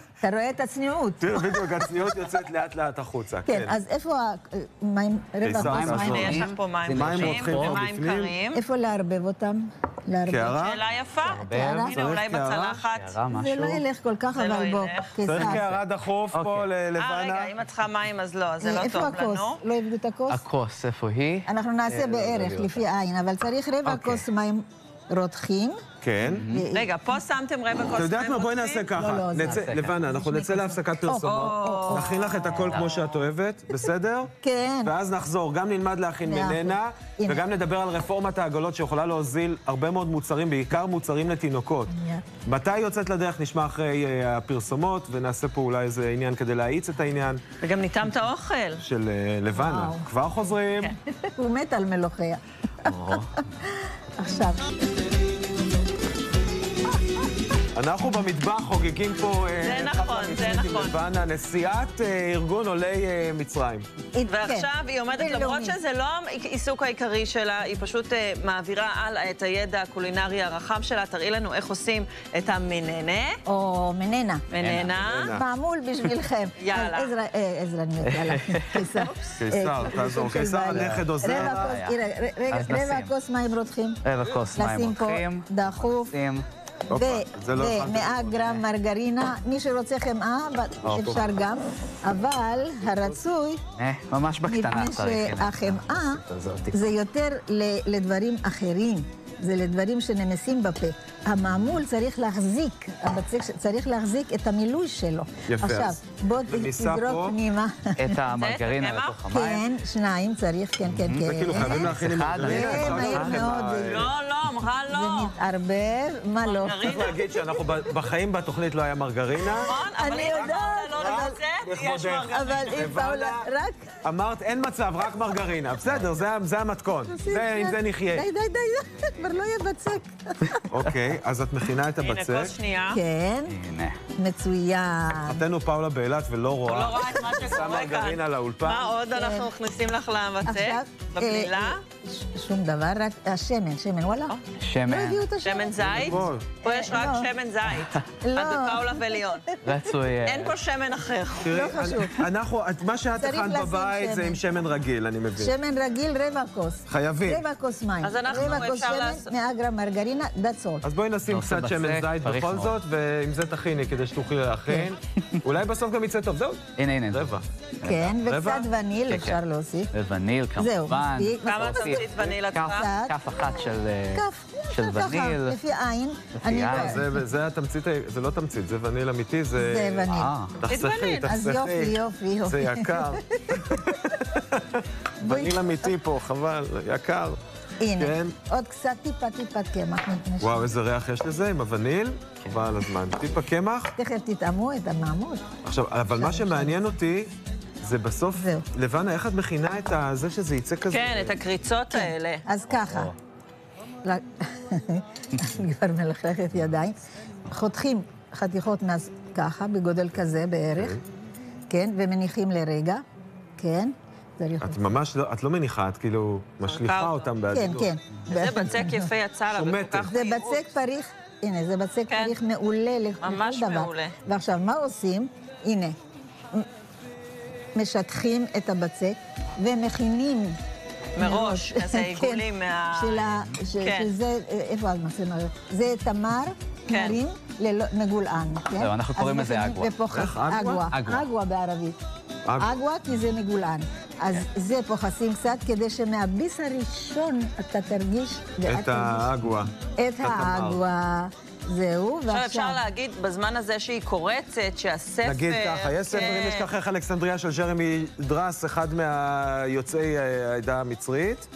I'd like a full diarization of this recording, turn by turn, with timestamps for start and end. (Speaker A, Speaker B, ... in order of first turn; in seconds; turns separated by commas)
Speaker A: 0.2-1.9, Speaker B: 1.2-3.8, Speaker A: 3.5-6.4, Speaker B: 5.4-8.3, Speaker C: 5.6-7.8, Speaker D: 5.9-8.6, Speaker A: 8.5-10.6, Speaker B: 10.2-10.8, Speaker D: 10.6-13.2, Speaker C: 11.2-12.0, Speaker A: 11.5-11.9, Speaker B: 11.9-12.8, Speaker C: 12.9-13.8, Speaker A: 13.3-15.7, Speaker D: 14.3-15.1, Speaker B: 15.2-17.5, Speaker C: 15.4-15.8, Speaker C: 16.3-16.7, Speaker D: 16.9-19.6, Speaker A: 18.6-20.4, Speaker C: 20.3-22.8, Speaker A: 21.4-25.8, Speaker C: 23.8-24.2, Speaker B: 26.0-26.4, Speaker C: 26.2-26.7, Speaker A: 26.5-26.9, Speaker D: 26.7-28.9, Speaker B: 27.9-41.9, Speaker A: 28.9-32.8, Speaker C: 29.4-29.9, Speaker D: 31.2-33.0, Speaker A: 34.4-34.9, Speaker A: 36.2-37.4, Speaker A: 41.9-42.2, Speaker B: 42.4-47.4, Speaker D: 47.6-48.8, Speaker B: 48.8-50.9, Speaker A: 49.6-50.0, Speaker A: 51.4-54.6, Speaker C: 52.9-53.2, Speaker B: 57.7-63.9, Speaker D: 59.6-61.0, Speaker A: 64.1-65.8, Speaker D: 64.3-73.3, Speaker A: 73.5-74.4, Speaker D: 74.5-75.4, Speaker C: 74.6-75.0, Speaker B: 75.0-75.4, Speaker A: 75.3-84.0, Speaker D: 76.6-77.1, Speaker C: 78.0-79.0, Speaker B: 79.4-81.8, Speaker C: 80.7-82.0, Speaker C: 82.5-83.1, Speaker C: 84.0-86.5, Speaker A: 84.5-86.2, Speaker B: 86.9-88.4, Speaker A: 86.9-93.6, Speaker C: 88.3-88.6, Speaker C: 90.8-91.2, Speaker B: 90.9-91.2, Speaker C: 93.8-96.8, Speaker A: 94.5-108.2, Speaker B: 105.5-107.4, Speaker C: 108.0-109.6, Speaker D: 108.3-109.3, Speaker A: 109.3-114.1, Speaker C: 110.9-113.4, Speaker B: 111.2-114.1, Speaker D: 113.8-115.3, Speaker A: 114.9-117.8, Speaker D: 116.4-117.2, Speaker B: 116.8-123.5, Speaker A: 119.4-121.4, Speaker D: 119.6-122.8, Speaker A: 122.3-123.9, Speaker B: 124.0-128.2, Speaker A: 127.1-130.7, Speaker B: 130.7-132.5, Speaker D: 132.0-133.0, Speaker A: 132.9-133.6, Speaker C: 133.5-134.0, Speaker A: 134.2-135.4, Speaker B: 135.3-138.9, Speaker D: 136.6-141.8, Speaker A: 139.1-139.5, Speaker A: 140.4-144.3, Speaker C: 144.6-145.2, Speaker A: 144.9-147.3, Speaker D: 145.4-149.4, Speaker B: 145.8-146.5, Speaker A: 148.2-149.6, Speaker C: 149.6-150.6, Speaker D: 150.2-151.5, Speaker B: 151.4-155.5, Speaker A: 151.4-152.2, Speaker A: 153.2-154.4, Speaker A: 155.4-160.8, Speaker B: 156.9-157.4, Speaker D: 158.0-159.3, Speaker B: 160.8-167.4, Speaker C: 161.3-162.8, Speaker C: 166.8-167.3, Speaker C: 167.8-168.2, Speaker A: 167.8-169.9, Speaker B: 168.2-168.7, Speaker C: 169.1-169.4, Speaker C: 169.9-175.6, Speaker A: 170.6-172.0, Speaker D: 171.4-172.9, Speaker A: 172.7-177.1, Speaker C: 176.3-177.1, Speaker B: 176.7-187.4, Speaker A: 179.6-180.3, Speaker C: 180.1-180.5, Speaker D: 180.7-181.3, Speaker A: 181.3-184.2, Speaker A: 185.2-185.9, Speaker A: 187.8-190.6, Speaker B: 188.0-188.3, Speaker B: 190.4-193.9, Speaker A: 193.9-195.4, Speaker B: 195.6-201.4, Speaker A: 196.2-196.8, Speaker A: 198.3-198.6, Speaker D: 200.9-202.4, Speaker A: 201.9-203.1, Speaker A: 204.0-211.0, Speaker A: 211.7-213.0, Speaker A: 213.6-214.8, Speaker B: 214.6-217.9, Speaker D: 216.6-217.2, Speaker A: 217.5-219.1, Speaker D: 218.3-220.7, Speaker B: 219.5-220.1, Speaker A: 220.1-225.9, Speaker D: 222.1-222.3, Speaker D: 223.2-224.1, Speaker A: 227.7-230.6, Speaker D: 231.2-233.3, Speaker A: 231.2-242.0, Speaker D: 233.8-234.1, Speaker D: 236.9-237.2, Speaker C: 238.8-239.9, Speaker B: 240.1-240.9, Speaker C: 240.9-241.2, Speaker B: 242.4-242.8, Speaker A: 242.6-249.3, Speaker B: 248.6-249.7, Speaker A: 249.9-252.8, Speaker B: 250.2-250.8, Speaker D: 252.3-256.7, Speaker B: 255.2-261.5